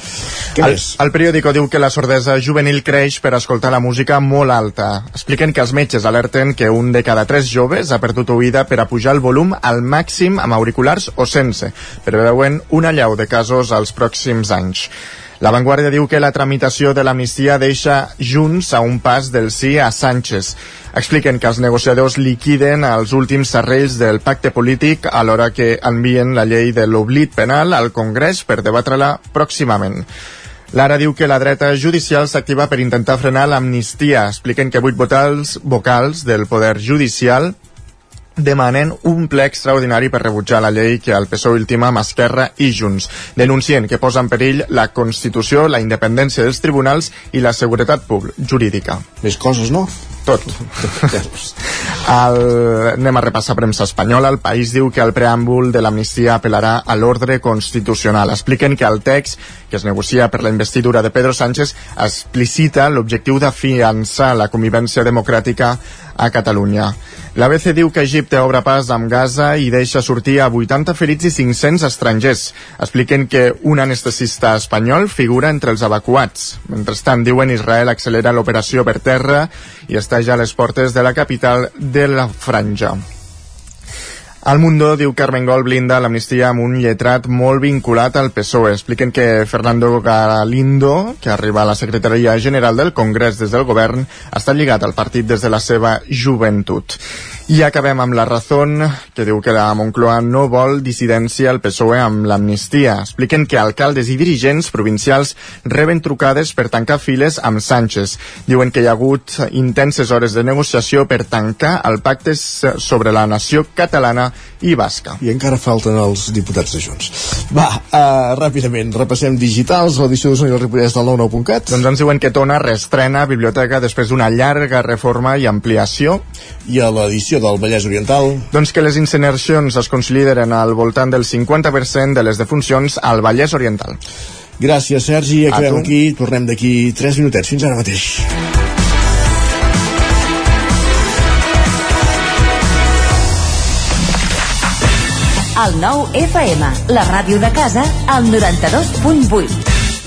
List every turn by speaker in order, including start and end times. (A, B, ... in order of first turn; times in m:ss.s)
0:00.6-0:01.0 A
0:00.6-0:30.1 B
0:30.7-0:37.6 B
0:38.4-0:49.0 B
0:49.2-0:49.9 A
0:50.3-0:51.1 B
0:50.6-0:51.5 A
0:52.0-1:23.0 B
1:24.4-1:55.2 B
1:55.2-2:01.8 A
2:01.7-2:06.2 B
2:06.6-2:08.5 A
2:08.5-2:14.0 B
2:14.6-2:18.3 A
2:15.5-2:15.9 B
2:25.6-2:29.6 C